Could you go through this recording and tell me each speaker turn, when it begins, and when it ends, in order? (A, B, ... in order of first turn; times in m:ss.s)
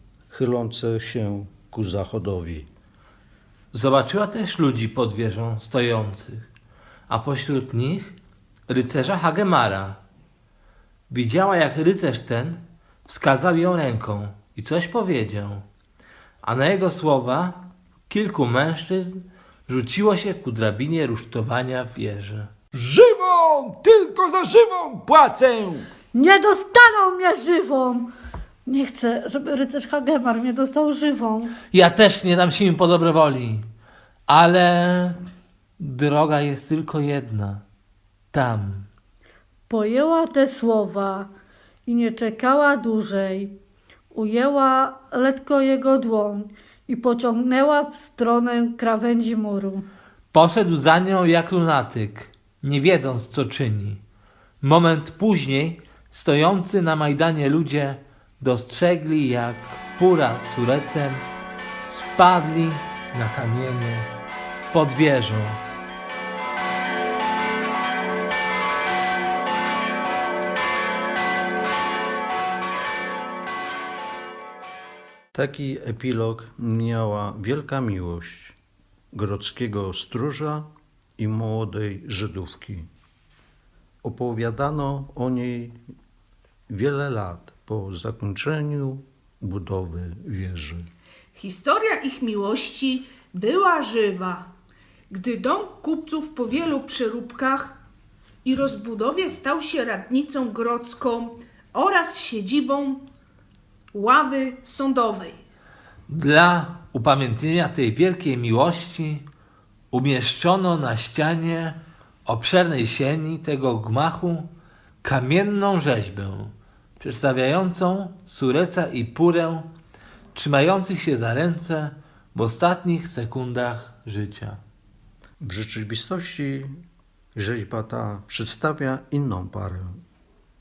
0:00.3-0:02.7 A
0:03.7-0:06.5 B
0:07.1-0:08.2 B
0:08.7-0:10.0 B
0:11.1-0:15.6 B
0:16.4-0:22.5 B
0:22.7-0:25.9 C
0:26.1-0:28.1 D
0:28.6-0:31.5 D
0:31.7-0:33.6 B
0:34.3-0:35.2 B
0:35.8-0:37.6 B
0:38.3-0:38.9 B
0:39.7-0:41.3 D
0:41.9-0:43.5 D
0:44.1-0:49.9 D
0:50.3-0:54.0 B
0:54.6-1:01.2 B
1:01.8-1:04.1 B
1:04.7-1:05.6 B
1:15.3-1:18.6 A
1:19.1-1:20.6 A
1:21.2-1:22.9 A
1:24.0-1:25.8 A
1:26.7-1:30.8 A
1:31.3-1:34.5 E
1:35.1-1:37.8 E
1:38.4-1:43.0 E
1:43.9-1:45.4 E
1:46.1-1:49.2 B
1:49.9-1:54.5 B
1:55.0-1:59.6 B
2:00.3-2:04.6 B
2:05.4-2:06.7 A
2:07.4-2:10.0 A